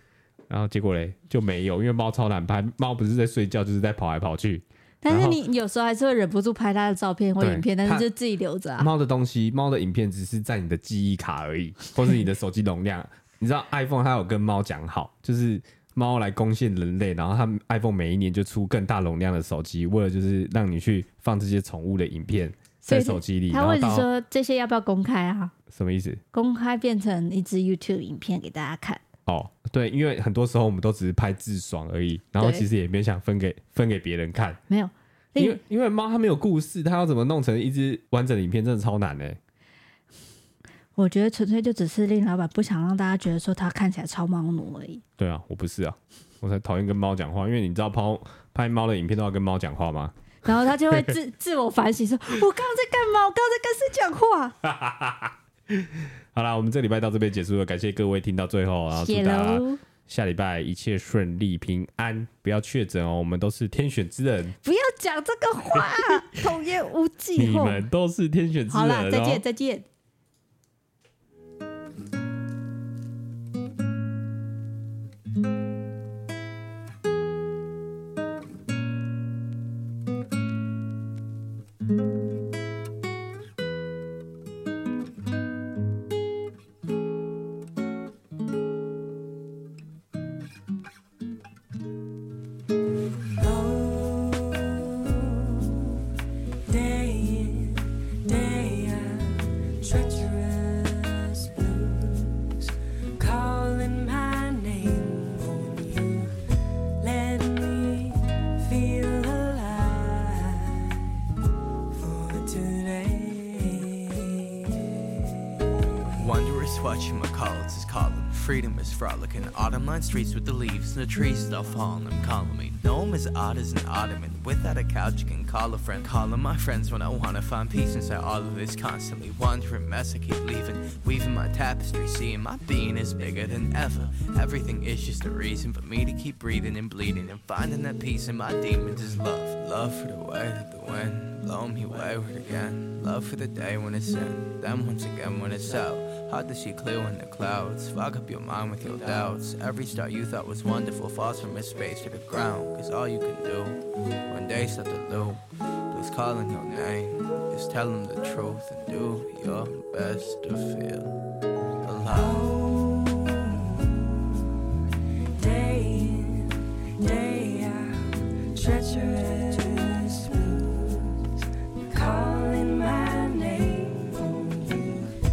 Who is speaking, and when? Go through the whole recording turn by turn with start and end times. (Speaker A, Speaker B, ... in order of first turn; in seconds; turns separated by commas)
Speaker A: 0.5-5.4, Speaker B: 5.0-8.9, Speaker A: 7.4-8.1, Speaker A: 8.8-24.1, Speaker B: 22.8-25.5, Speaker A: 25.7-26.2, Speaker B: 26.3-29.0, Speaker A: 29.3-34.6, Speaker B: 32.4-32.6, Speaker B: 34.7-35.6, Speaker A: 35.4-39.4, Speaker B: 41.0-45.0, Speaker A: 45.2-50.1, Speaker B: 50.4-54.5, Speaker A: 54.6-64.5, Speaker B: 58.9-59.8, Speaker B: 64.6-67.9, Speaker A: 67.3-69.4, Speaker B: 68.7-69.8, Speaker C: 93.4-96.0, Speaker C: 96.7-106.3, Speaker C: 107.0-111.0, Speaker C: 111.9-114.9, Speaker D: 116.0-161.2, Speaker D: 161.8-162.4, Speaker C: 162.2-164.3, Speaker C: 165.3-171.3, Speaker C: 171.9-175.1